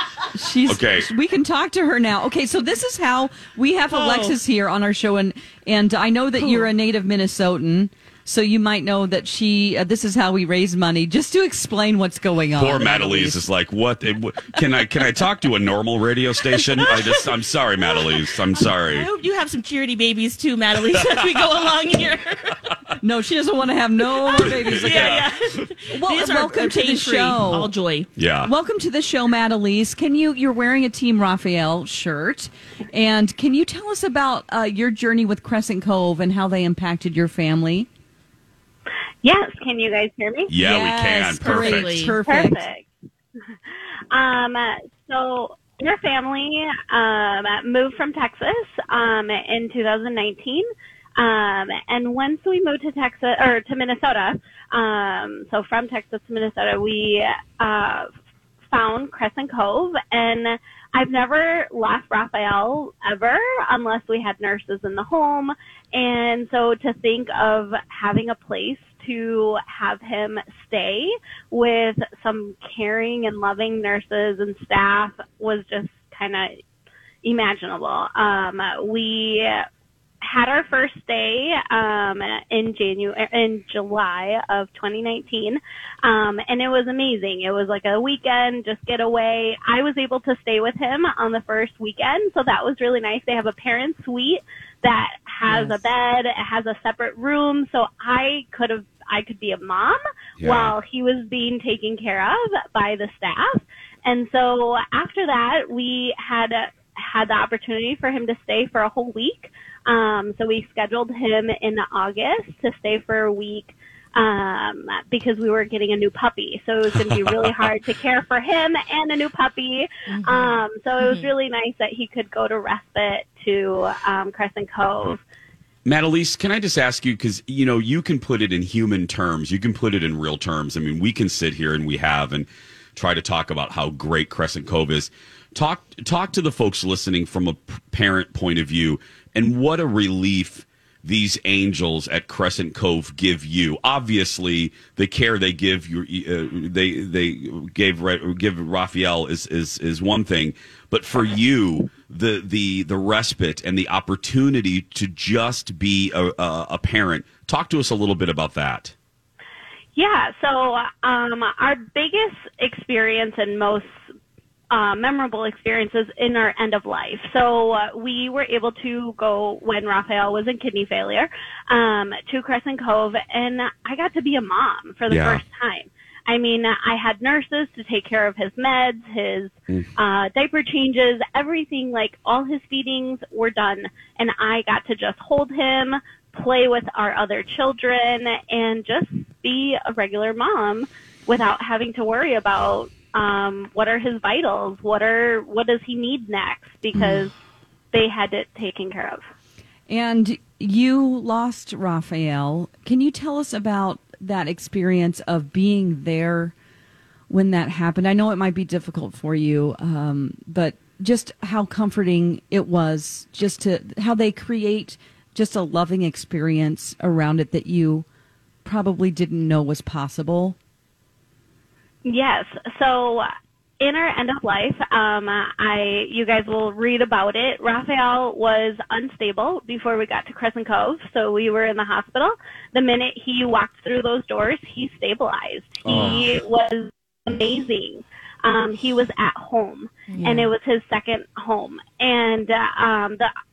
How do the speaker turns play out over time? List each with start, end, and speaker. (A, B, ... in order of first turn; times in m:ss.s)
0:00.3-0:13.4 A
0:00.7-0:01.1 B
0:03.9-0:04.4 C
0:06.4-0:06.7 C
0:12.6-0:19.1 B
0:16.6-0:22.6 C
0:23.0-0:25.2 A
0:24.3-0:25.3 B
0:24.3-0:28.1 C
0:25.9-0:27.7 A
0:28.2-0:28.5 B
0:28.4-0:37.9 A
0:39.2-0:40.5 D
0:40.5-0:42.1 B
0:40.6-0:42.6 A
0:41.4-0:42.2 C
0:42.2-0:42.9 D
0:44.1-0:58.1 D
0:58.7-1:16.6 D
1:17.2-1:19.7 D
1:20.2-2:05.2 D
1:35.5-1:35.8 A
1:40.4-1:40.8 B
1:57.1-1:57.6 B
2:00.1-2:01.3 C
2:05.8-2:38.9 B
2:39.9-2:43.9 D
2:44.7-3:17.3 D
2:55.1-2:55.4 B
3:17.9-3:19.2 D
3:19.9-3:26.5 A
3:27.3-3:38.0 A
3:38.6-3:40.6 A
3:42.0-3:43.3 D
3:43.8-4:03.3 D
3:55.8-3:56.3 B
3:55.9-3:56.2 C
4:00.1-4:00.5 C